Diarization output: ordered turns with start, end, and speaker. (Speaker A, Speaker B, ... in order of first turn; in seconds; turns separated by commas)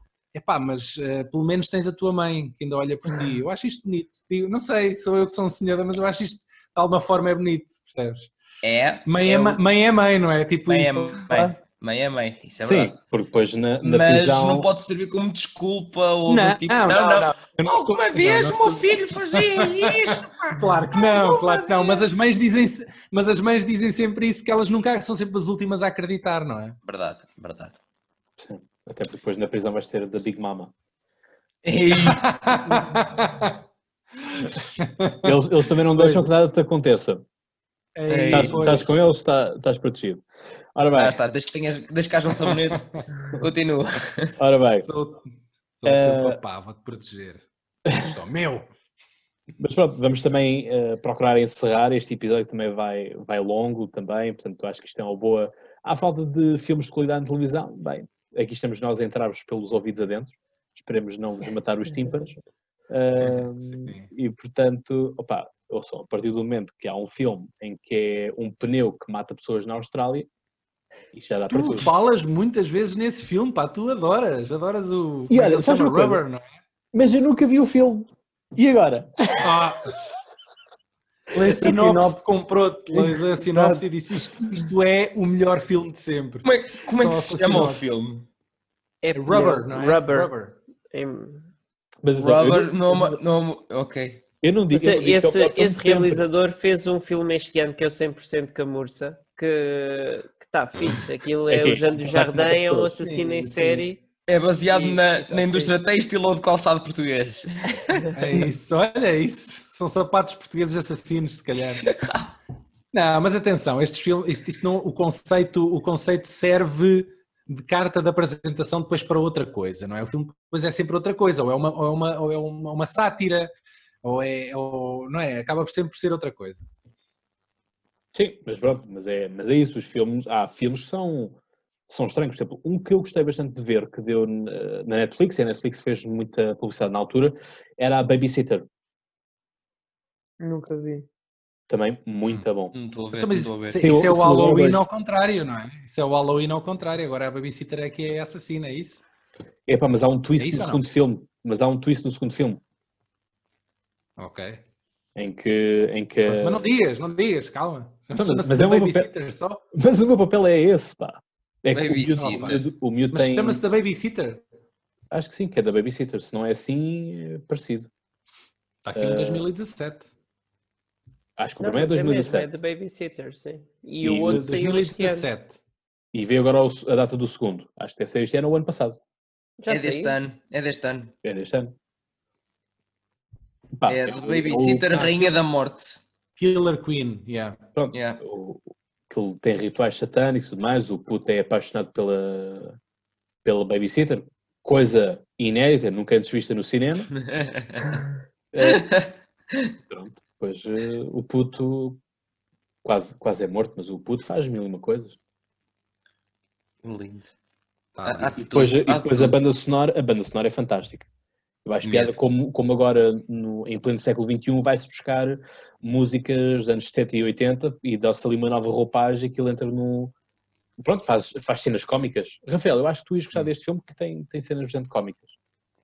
Speaker A: 0.3-8.3, Speaker B: 8.6-9.6, Speaker A: 9.1-11.2, Speaker B: 10.7-12.9, Speaker C: 12.6-14.7, Speaker B: 13.8-20.3, Speaker A: 16.3-26.8, Speaker B: 21.0-22.0, Speaker B: 26.9-27.7, Speaker C: 28.4-30.7, Speaker B: 31.6-32.3, Speaker A: 32.0-33.6, Speaker A: 34.3-36.3, Speaker C: 35.2-37.2, Speaker A: 37.9-38.9, Speaker B: 38.1-38.7, Speaker C: 38.3-40.2, Speaker C: 40.7-41.1, Speaker B: 40.9-44.3, Speaker C: 44.4-44.9, Speaker A: 44.8-47.4, Speaker C: 45.9-46.4, Speaker A: 48.0-48.7, Speaker C: 49.6-70.3, Speaker A: 63.1-64.1, Speaker C: 71.1-71.9, Speaker A: 71.5-76.4, Speaker C: 75.3-76.2, Speaker C: 76.9-79.6, Speaker A: 79.4-80.1, Speaker D: 81.3-82.3, Speaker A: 81.3-87.9, Speaker D: 82.9-83.8, Speaker B: 86.4-88.3, Speaker E: 89.0-90.3, Speaker A: 89.1-90.6, Speaker E: 90.9-91.5, Speaker C: 92.0-93.2, Speaker B: 92.2-94.2, Speaker C: 94.4-96.2, Speaker E: 94.7-104.0, Speaker C: 101.5-103.8, Speaker B: 104.3-108.1, Speaker E: 104.7-105.7, Speaker A: 108.1-111.8, Speaker B: 111.8-112.3, Speaker A: 112.9-123.5, Speaker A: 124.0-126.7, Speaker C: 128.1-138.7, Speaker D: 140.4-141.1, Speaker C: 141.7-142.7, Speaker B: 142.7-143.9, Speaker A: 143.1-149.0, Speaker C: 143.8-144.8, Speaker C: 149.7-152.6, Speaker A: 150.4-150.8, Speaker A: 154.2-154.6, Speaker C: 155.2-156.6, Speaker A: 156.3-159.6, Speaker C: 158.1-159.1, Speaker C: 159.7-163.6, Speaker B: 161.7-162.6, Speaker A: 162.2-164.4, Speaker C: 165.1-167.9, Speaker A: 168.8-170.1, Speaker C: 168.9-169.4, Speaker C: 171.4-172.6, Speaker E: 171.6-175.3, Speaker C: 174.0-174.4, Speaker A: 174.2-175.6, Speaker C: 176.1-179.0, Speaker E: 179.6-180.2, Speaker B: 179.7-181.1, Speaker C: 181.2-181.8, Speaker C: 183.8-185.3, Speaker B: 183.9-186.0, Speaker A: 186.4-187.6, Speaker C: 187.8-192.8, Speaker B: 187.9-188.2, Speaker C: 193.4-197.1, Speaker B: 197.3-197.8, Speaker C: 198.5-198.9, Speaker B: 198.7-199.7, Speaker C: 199.9-202.0, Speaker C: 202.8-205.2, Speaker B: 206.8-207.3, Speaker A: 207.9-208.3, Speaker B: 208.0-209.4, Speaker C: 208.3-211.1, Speaker C: 211.6-220.1, Speaker B: 211.8-212.1, Speaker C: 220.8-225.3